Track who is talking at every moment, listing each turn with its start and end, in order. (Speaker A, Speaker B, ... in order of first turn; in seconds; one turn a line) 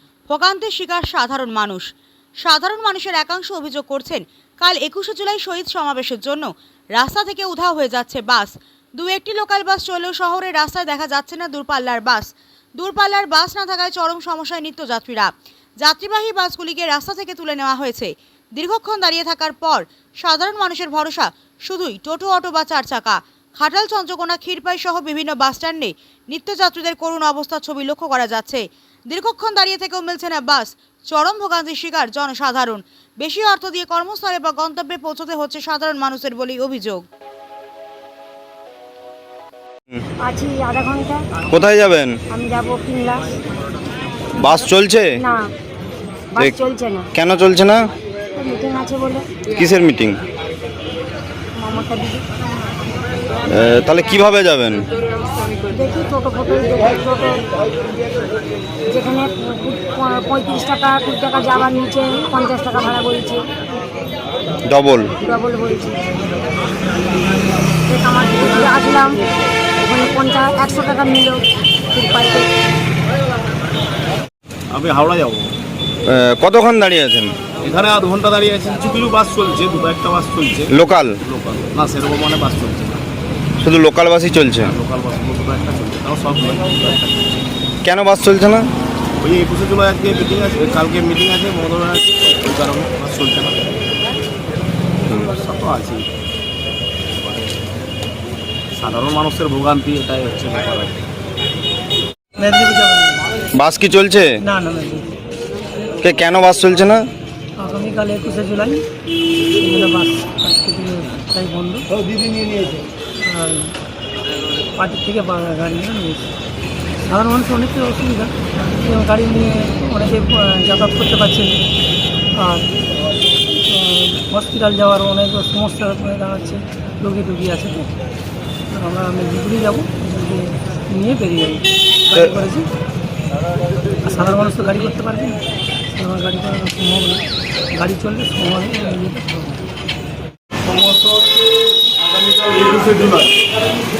Speaker A: 0.3-1.9
Speaker A: 2.5-12.3
Speaker A: 12.8-15.3
Speaker A: 15.8-37.0
Speaker B: 40.2-41.2
Speaker C: 41.5-42.1
Speaker B: 42.3-43.2
Speaker C: 44.4-45.2
Speaker B: 45.2-45.5
Speaker B: 46.4-47.1
Speaker C: 47.1-47.9
Speaker B: 48.4-49.2
Speaker C: 49.5-50.2
Speaker B: 51.6-52.2
Speaker C: 53.5-54.8
Speaker B: 55.7-57.4
Speaker B: 58.9-63.4
Speaker C: 64.7-65.1
Speaker B: 65.2-66.0
Speaker B: 67.9-69.2
Speaker B: 69.8-71.4
Speaker B: 71.9-72.5
Speaker D: 74.7-75.5
Speaker C: 76.1-77.3
Speaker D: 77.6-80.7
Speaker C: 80.7-81.2
Speaker D: 81.3-83.0
Speaker C: 83.6-84.7
Speaker D: 84.6-87.5
Speaker C: 87.8-88.7
Speaker D: 89.2-93.7
Speaker D: 95.2-96.0
Speaker D: 98.8-100.9
Speaker E: 102.4-103.2
Speaker C: 103.5-104.3
Speaker E: 104.4-105.1
Speaker C: 106.0-107.0
Speaker E: 107.6-108.8
Speaker E: 109.6-111.9
Speaker E: 113.2-113.8
Speaker E: 114.8-116.3
Speaker E: 117.0-121.6
Speaker E: 122.4-122.8
Speaker E: 123.5-127.9
Speaker E: 128.7-132.7
Speaker E: 134.0-135.4
Speaker E: 135.9-139.6
Speaker F: 140.6-143.3